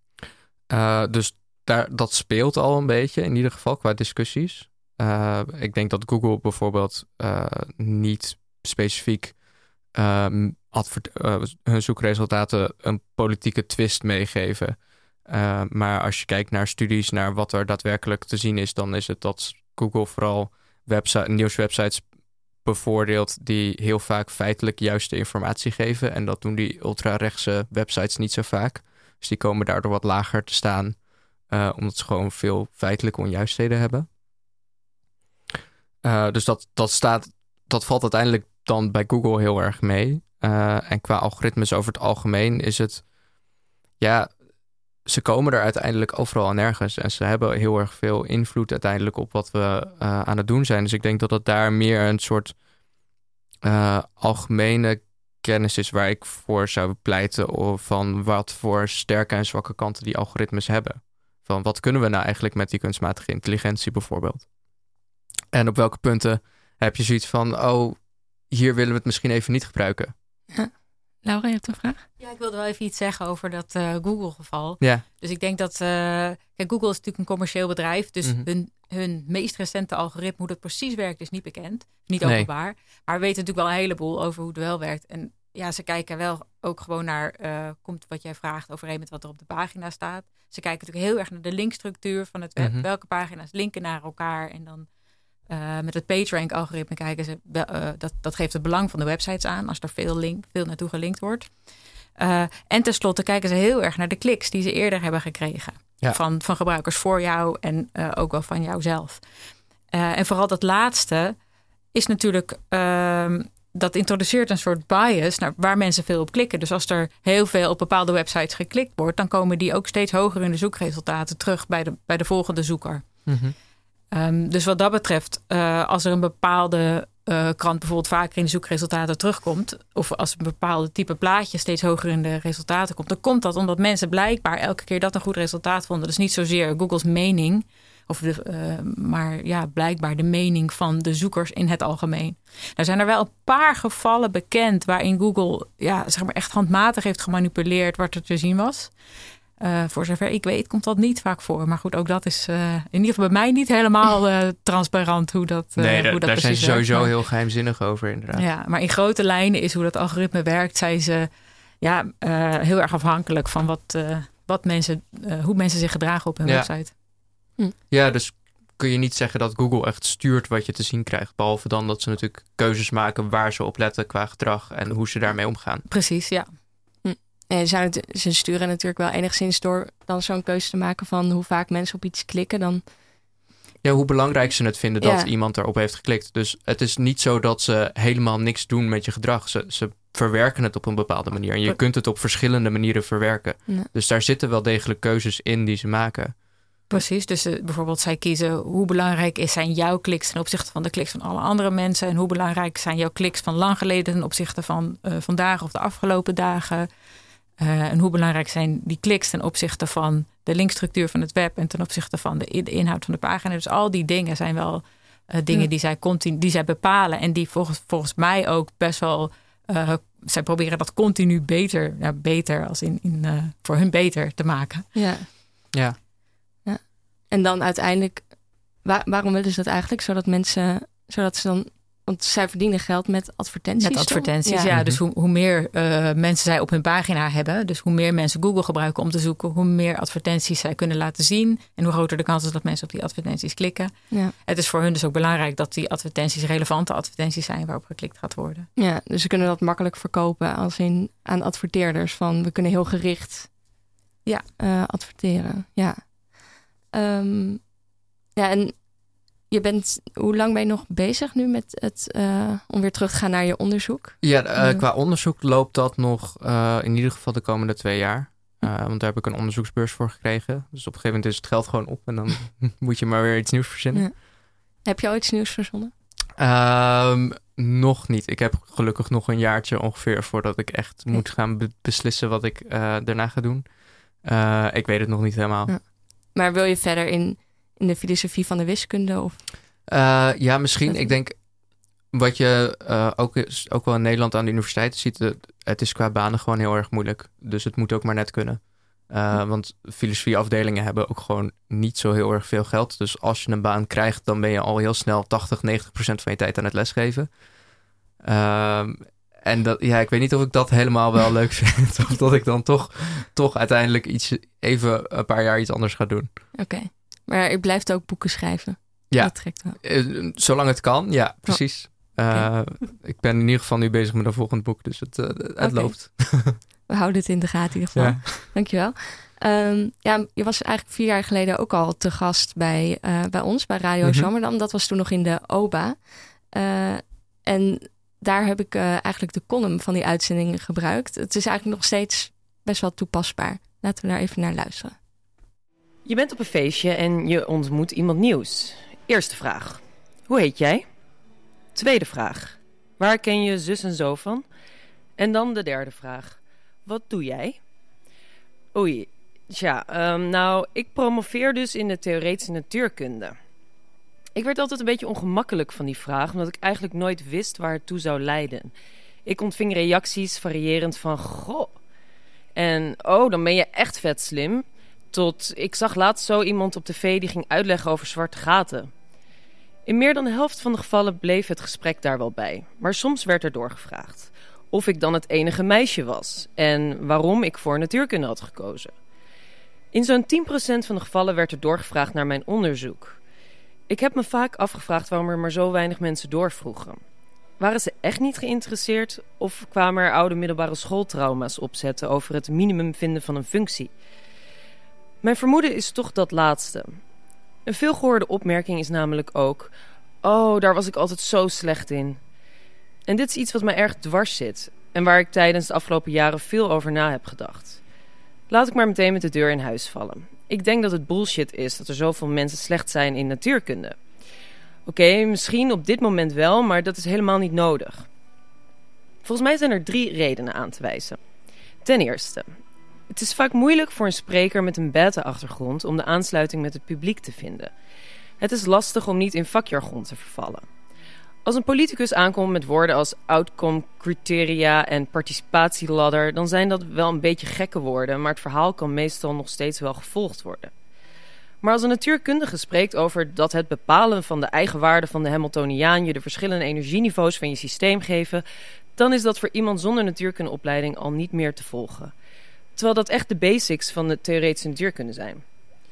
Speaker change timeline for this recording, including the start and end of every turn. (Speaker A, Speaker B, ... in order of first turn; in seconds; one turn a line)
Speaker A: 0.7-34.1
Speaker A: 36.0-43.1
Speaker A: 44.0-44.3
Speaker A: 45.0-52.5
Speaker A: 53.6-64.5
Speaker A: 65.5-70.1
Speaker B: 71.2-72.0
Speaker C: 72.2-94.9
Speaker A: 82.2-82.5
Speaker A: 92.6-92.9
Speaker C: 95.5-101.5
Speaker C: 102.2-109.2
Speaker C: 109.9-111.4
Speaker C: 111.9-123.1
Speaker A: 123.3-123.5
Speaker C: 124.1-148.9
Speaker C: 149.6-157.1
Speaker A: 155.8-158.5
Speaker C: 158.3-161.3
Speaker C: 161.8-166.9
Speaker A: 166.4-166.7
Speaker A: 167.9-175.8
Speaker C: 175.9-176.5
Speaker B: 177.0-182.8
Speaker A: 183.8-196.3
Speaker B: 185.0-185.3
Speaker C: 196.9-206.9
Speaker C: 207.6-224.9
Speaker B: 224.9-225.7
Speaker A: 225.7-226.0
Speaker B: 226.7-234.7
Speaker C: 233.8-248.7
Speaker A: 234.7-235.0
Speaker B: 248.8-253.5
Speaker B: 254.6-257.8
Speaker B: 258.4-258.9
Speaker B: 259.5-264.8
Speaker A: 264.2-274.1
Speaker B: 273.9-274.3
Speaker B: 274.8-275.9
Speaker A: 276.4-285.7
Speaker B: 285.7-289.4
Speaker A: 289.9-291.4
Speaker B: 290.9-291.1
Speaker A: 292.1-307.3
Speaker A: 308.2-316.3
Speaker B: 316.6-319.8
Speaker A: 319.1-326.6
Speaker B: 321.5-322.5
Speaker B: 325.6-344.9
Speaker A: 327.9-328.4
Speaker A: 334.0-334.3
Speaker D: 346.1-350.8
Speaker D: 351.8-354.4
Speaker D: 355.2-357.6
Speaker D: 358.7-363.4
Speaker D: 364.4-368.7
Speaker D: 369.3-371.8
Speaker D: 372.6-378.9
Speaker D: 379.9-388.9
Speaker D: 389.9-393.2
Speaker D: 393.9-397.0
Speaker D: 397.6-403.9
Speaker D: 405.2-407.0
Speaker D: 407.7-409.7
Speaker D: 410.2-412.2
Speaker D: 413.1-417.8
Speaker D: 418.5-424.0
Speaker D: 424.9-428.1
Speaker D: 429.2-431.2
Speaker D: 431.8-432.4
Speaker D: 433.1-437.7
Speaker D: 438.4-440.6
Speaker D: 441.4-450.7
Speaker D: 451.6-458.4
Speaker D: 459.0-462.1
Speaker D: 462.8-465.4